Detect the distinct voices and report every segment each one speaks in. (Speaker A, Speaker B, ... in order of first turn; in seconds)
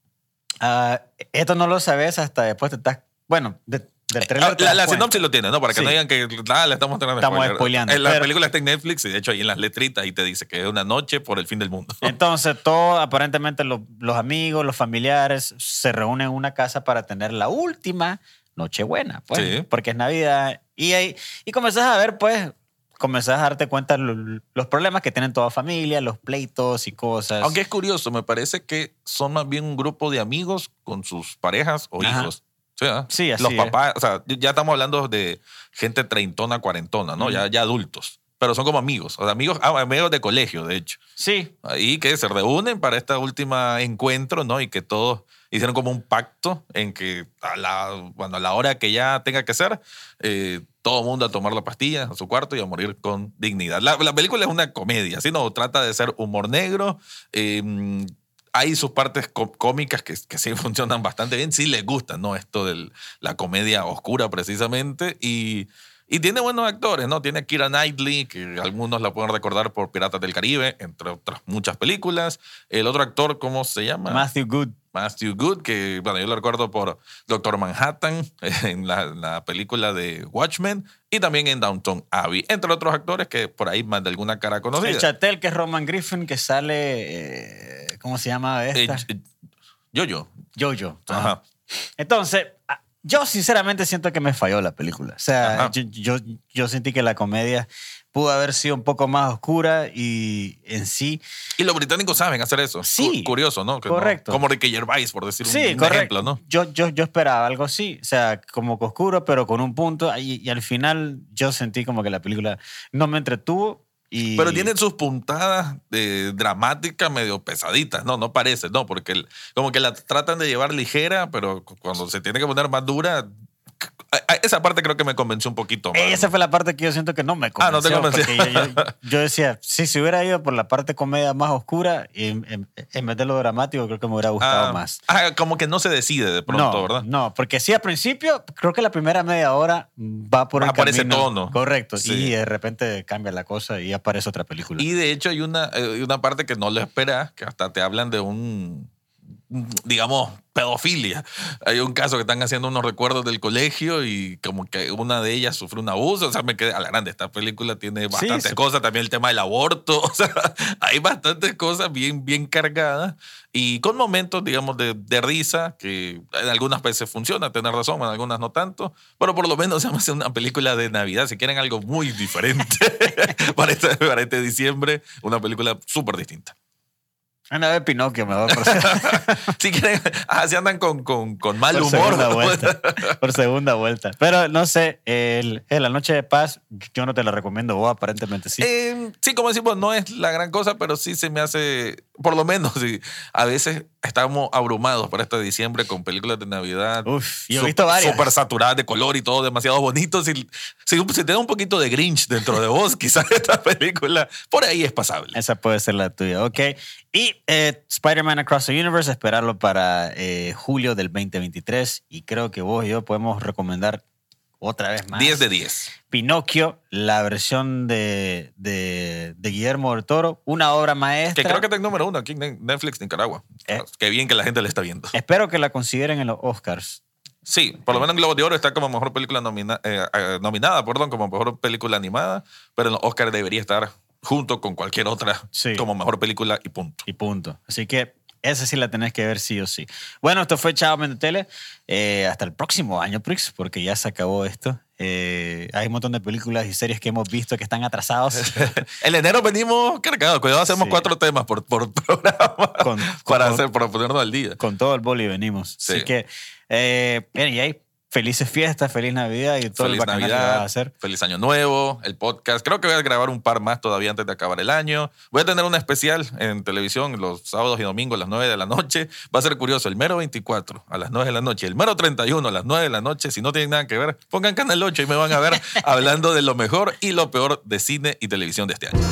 Speaker A: 0.6-5.2, 5.7-6.0, 7.2-8.3, 12.0-27.6, 32.0-32.3, 33.1-33.8, 37.2-37.4, 41.2-41.5, 74.1-74.8, 84.8-89.0, 90.5-91.3, 91.9-101.2, 102.8-103.3, 103.8-104.4, 105.4-114.7, 125.9-135.0, 136.5-144.9, 158.1-158.6, 177.5-179.5, 181.7-188.7, 197.0-198.3, 205.3-214.0, 214.6-215.4, 216.0-221.7, 225.1-227.0, 235.5-235.8, 237.1-248.8, 250.7-251.1, 252.8-253.6, 254.6-260.9
Speaker B: 4.2-12.1, 19.3-19.6, 27.4-41.0, 41.6-74.2, 74.9-85.1, 88.7-89.2, 89.9-90.3, 91.1-91.4, 95.4-95.7, 101.6-106.4, 114.3-123.3, 123.8-126.3, 127.6-128.9, 134.4-137.1, 140.6-142.3, 144.8-148.9, 149.5-176.5, 178.5-183.2, 188.6-205.4, 215.1-215.9, 221.3-225.1, 227.4-237.0, 248.3-254.6, 255.8-256.1, 259.7-279.0